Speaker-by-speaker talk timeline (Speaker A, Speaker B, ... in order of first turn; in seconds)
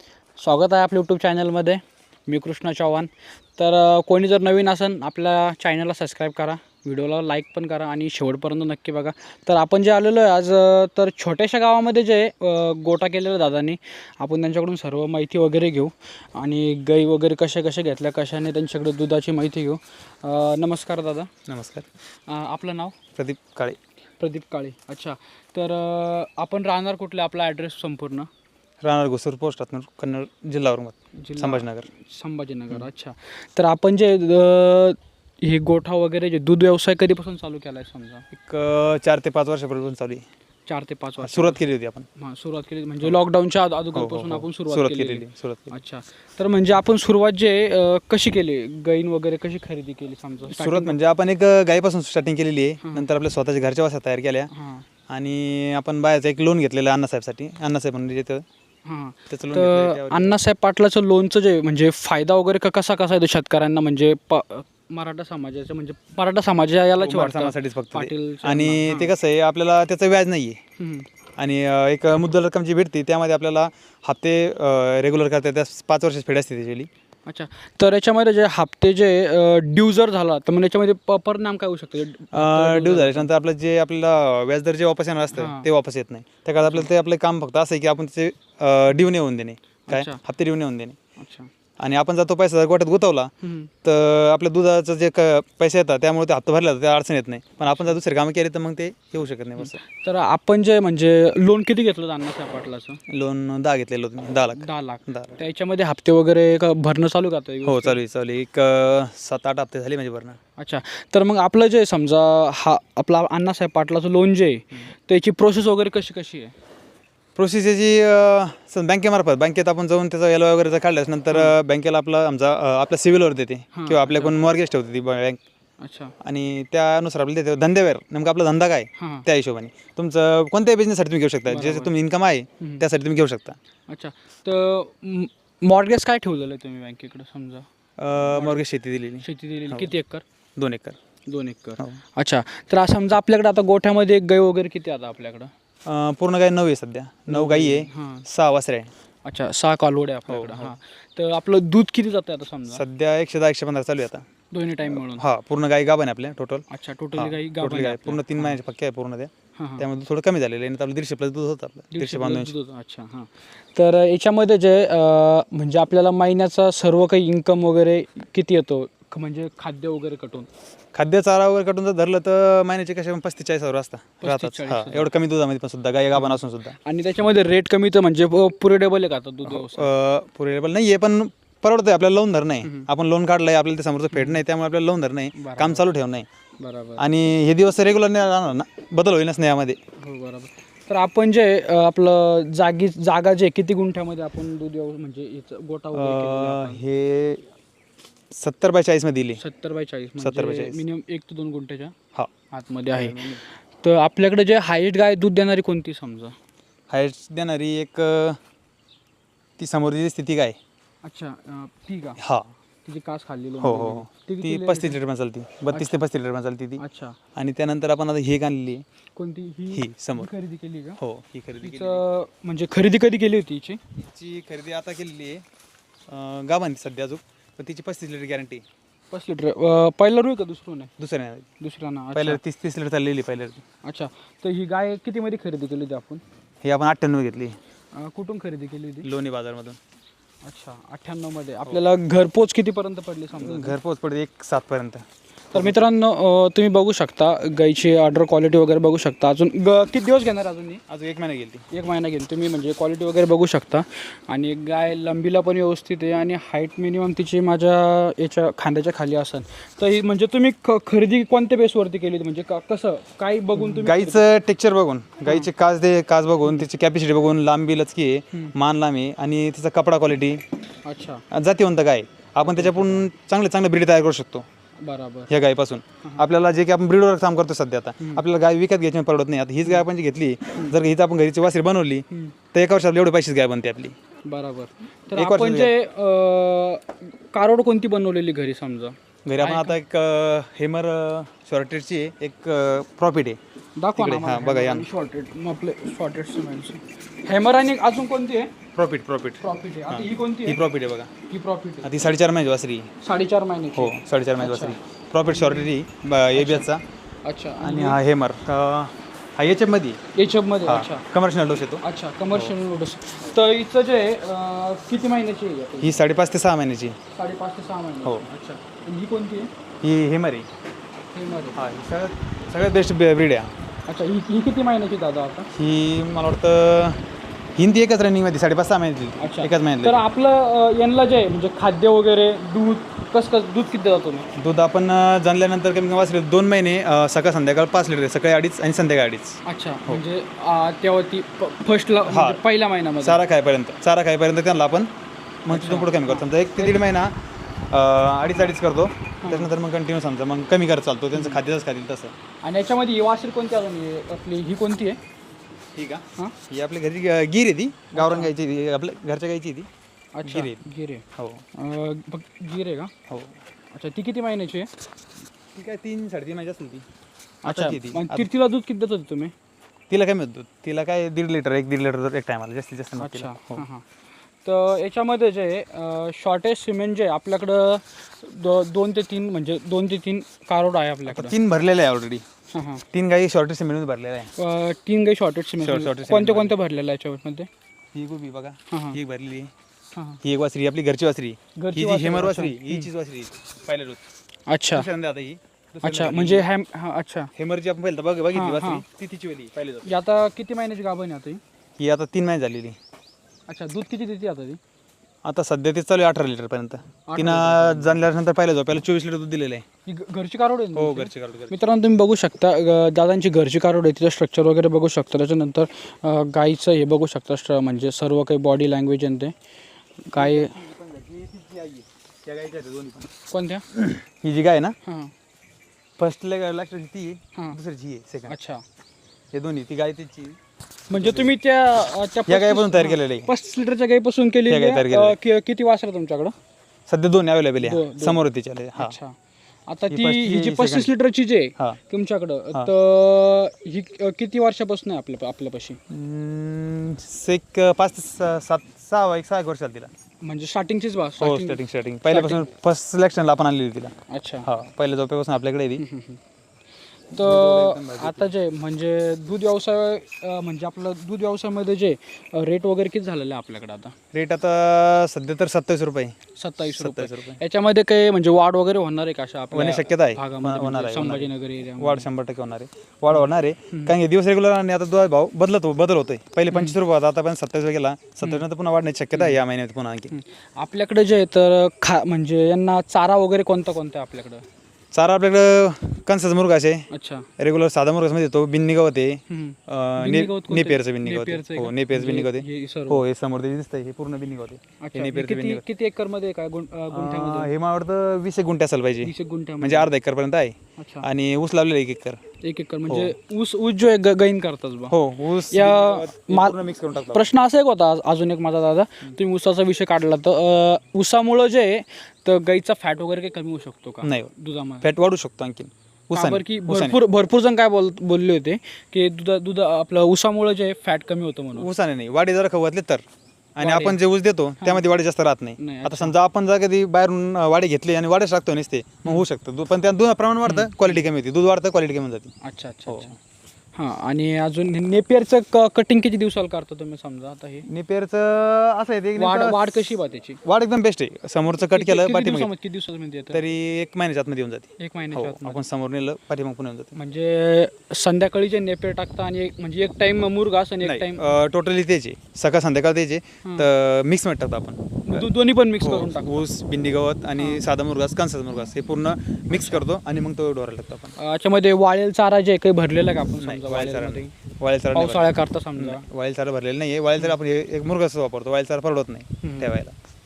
Speaker A: 0.4-21.3, 22.3-22.9, 24.2-28.3, 31.2-38.3, 40.7-41.6, 42.2-51.0, 52.8-53.1, 54.5-54.9, 58.9-69.1, 70.8-71.1, 77.3-83.3, 85.3-85.7, 86.6-86.9, 89.9-90.2, 91.2-91.5, 93.4-93.7, 99.6-103.0, 104.6-108.0, 110.6-116.5, 123.7-124.3, 125.8-126.1, 129.0-129.2, 131.5-131.9, 133.9-138.6, 139.2-140.2, 141.3-145.5, 147.3-148.3, 149.2-152.8, 154.5-155.2, 156.7-158.6, 159.6-159.9, 161.9-170.5, 174.2-175.1, 176.2-179.9, 184.1-184.4, 185.3-185.8, 186.6-187.1, 190.0-196.8, 199.4-201.9, 202.5-203.2, 203.8-206.3, 211.0-212.2, 212.8-215.0, 215.7-216.0, 216.8-217.2, 219.2-221.0, 221.6-223.8, 229.1-230.9, 231.6-232.4, 233.8-236.2, 237.9-239.1, 240.4-243.8, 245.5-250.8, 251.7-264.2, 270.9-271.2, 272.4-273.1, 274.8-275.3, 278.0-278.2, 284.3-289.8, 293.8-298.5, 299.4-300.6, 301.3-302.0, 303.0-304.8, 305.3-305.7, 306.4-306.7, 307.2-308.0, 310.1-311.1, 311.8-316.0, 317.1-319.5, 321.1-321.6, 323.9-325.5, 329.2-334.3, 339.4-343.2, 345.5-346.8, 349.2-349.5, 352.4-355.0, 357.9-358.3, 360.1-362.9, 363.7-364.7, 367.4-369.3, 373.0-373.9, 374.4-381.4, 382.5-382.8, 384.4-387.5, 388.7-389.0, 389.9-390.2, 391.6-392.9, 394.5-394.9, 395.8-397.3, 398.3-398.8, 399.9-401.4, 403.5-404.6, 407.1-408.0, 409.9-419.3, 420.0-420.6, 423.3-423.7, 424.8-425.1, 428.3-428.6, 430.9-436.3, 437.6-438.2, 438.8-439.1, 439.7-445.8, 450.2-452.4, 454.1-454.5, 455.8-456.2, 457.1-463.9, 466.4-472.1, 473.1-473.9, 476.5-476.8, 480.1-484.4, 486.9-487.3, 489.3-493.0, 494.8-497.5, 499.0-499.9, 500.8-501.1, 502.4-505.0, 505.5-514.9, 516.1-521.7, 523.6-524.0, 525.6-526.2, 530.5-531.0, 532.4-533.1, 533.8-537.7, 539.2-540.4, 541.6-543.4, 544.8-545.6, 547.0-551.2, 553.4-553.7, 555.1-556.5, 557.4-557.6, 559.6-559.8, 561.2-564.3, 564.9-566.0, 569.4-569.7
Speaker B: 21.5-21.9, 23.2-23.8, 28.8-31.9, 38.3-40.2, 41.2-42.1, 43.9-45.7, 50.5-54.5, 55.1-58.5, 59.3-60.4, 67.0-70.6, 71.4-76.9, 82.3-91.0, 91.8-93.3, 93.8-99.8, 103.1-105.4, 107.7-110.4, 117.4-125.4, 126.2-133.6, 138.0-139.9, 140.6-141.0, 145.8-148.9, 150.3-150.8, 152.7-154.3, 154.9-162.5, 170.9-176.8, 179.5-186.3, 187.0-189.8, 195.9-197.4, 198.3-199.4, 200.2-200.8, 202.9-203.4, 206.9-208.4, 209.6-210.6, 212.2-212.5, 213.6-216.8, 217.4-218.8, 219.7-220.3, 221.0-222.0, 224.0-225.4, 226.1-228.6, 231.0-231.5, 232.1-233.6, 236.6-237.6, 239.0-239.8, 243.4-245.8, 250.9-251.7, 263.6-270.4, 271.3-274.5, 275.3-283.9, 285.1-285.7, 289.3-293.4, 294.0-294.9, 298.8-301.1, 301.8-302.9, 303.8-306.8, 307.6-310.0, 310.7-312.5, 315.8-317.0, 319.8-320.5, 321.6-323.5, 325.5-327.0, 327.6-330.0, 334.4-340.0, 342.1-342.4, 343.0-344.9, 345.5-347.2, 347.7-352.1, 355.8-359.7, 360.2-360.6, 361.2-361.4, 363.1-363.4, 365.5-366.9, 367.4-368.3, 369.9-373.6, 381.1-382.2, 382.9-384.3, 385.6-386.6, 387.9-389.5, 390.2-394.0, 394.7-396.5, 397.4-400.0, 401.8-402.8, 405.2-409.6, 410.7-411.5, 420.1-423.1, 423.7-424.8, 426.0-428.4, 429.3-430.4, 430.9-431.3, 432.3-433.3, 434.5-435.2, 436.9-439.0, 439.9-440.9, 445.9-449.9, 451.2-455.8, 457.1-458.3, 464.1-466.1, 466.7-467.4, 469.5-480.1, 484.9-486.9, 487.4-495.6, 496.9-502.2, 502.9-503.1, 504.9-507.3, 514.0-514.3, 514.8-517.0, 521.5-523.0, 523.6-532.3, 532.9-533.1, 537.7-539.6, 540.4-542.5, 543.3-547.0, 550.8-555.3, 555.8-561.1, 563.4-569.9